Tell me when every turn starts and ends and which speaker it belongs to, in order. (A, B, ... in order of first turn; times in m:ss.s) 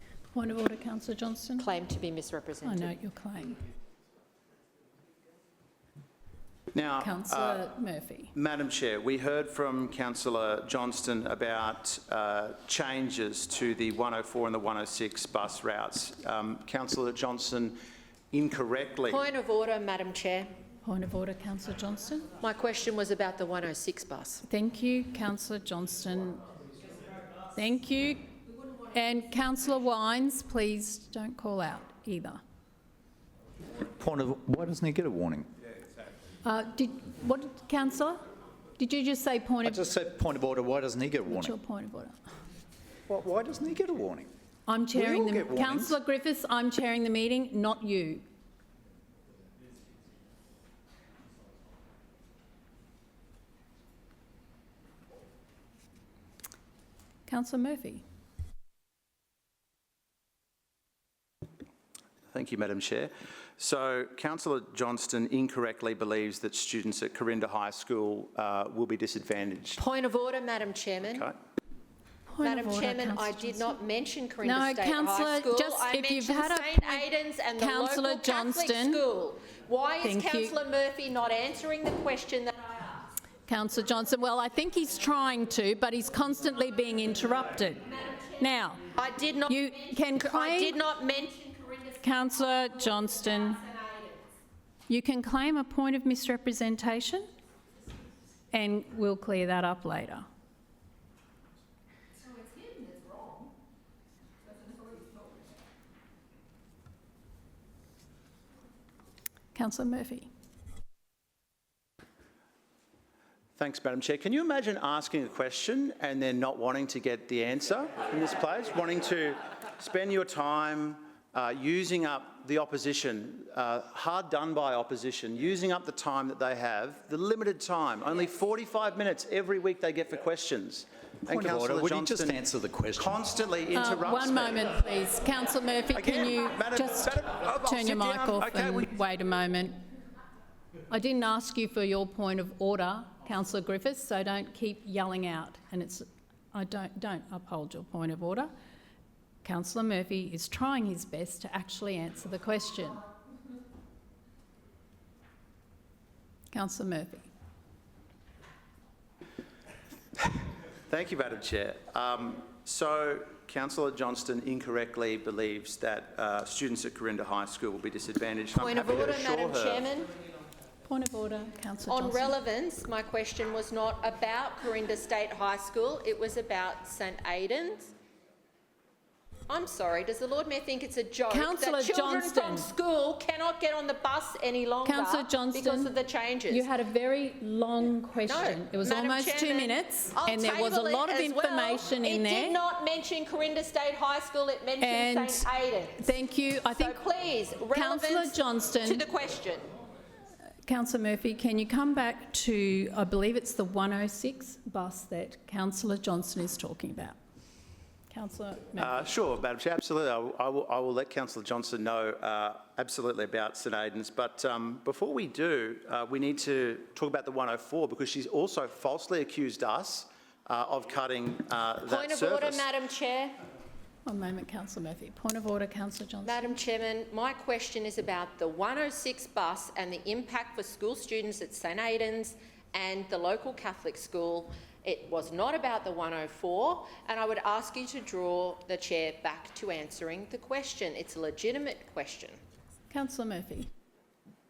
0:00.3-0:01.7 A
0:01.6-0:02.9 B
0:02.6-0:03.6 A
0:06.7-0:07.6 C
0:07.0-0:08.3 A
0:08.3-0:17.8 C
0:18.3-0:19.2 C
0:19.1-0:20.5 B
0:20.8-0:22.3 A
0:22.4-0:24.4 B
0:24.5-0:26.4 A
0:27.6-0:28.3 A
0:28.9-0:32.4 A
0:33.8-0:35.5 D
0:36.4-0:38.3 A
0:38.8-0:39.9 A
0:39.6-0:41.6 D
0:41.3-0:42.2 A
0:43.1-0:44.3 D
0:44.7-0:48.2 A
0:44.9-0:46.0 D
0:57.3-0:58.0 A
1:02.3-1:09.8 C
1:09.8-1:11.3 B
1:11.1-1:11.4 C
1:12.3-1:13.8 A
1:12.4-1:23.1 B
1:14.4-1:19.0 A
1:20.0-1:20.6 A
1:23.5-1:28.9 A
1:28.0-1:34.4 B
1:29.5-1:30.8 A
1:32.0-1:33.6 A
1:34.9-1:37.3 A
1:38.5-1:40.3 A
1:42.2-1:43.5 B
1:44.5-1:45.4 B
1:49.5-1:50.3 A
1:53.6-2:12.4 C
2:11.3-2:13.2 D
2:13.0-2:14.7 C
2:13.7-2:19.8 A
2:15.9-2:18.9 C
2:20.9-2:28.5 A
2:29.4-2:33.0 A
2:36.5-2:37.3 A
2:40.9-2:49.8 C
2:48.5-2:50.1 B
2:50.9-2:52.4 A
2:51.9-2:57.9 B
2:59.5-3:06.7 B
3:01.3-3:02.7 A
3:04.8-3:06.0 A
3:06.5-3:12.6 A
3:08.3-3:16.1 B
3:14.8-3:17.0 A
3:16.8-3:19.7 B
3:17.7-3:19.0 A
3:20.7-3:27.2 A
3:28.1-3:29.0 A
3:28.8-3:42.7 C
3:41.8-3:43.4 B
3:44.0-3:46.6 A
3:46.2-4:02.4 B
4:02.9-4:03.7 A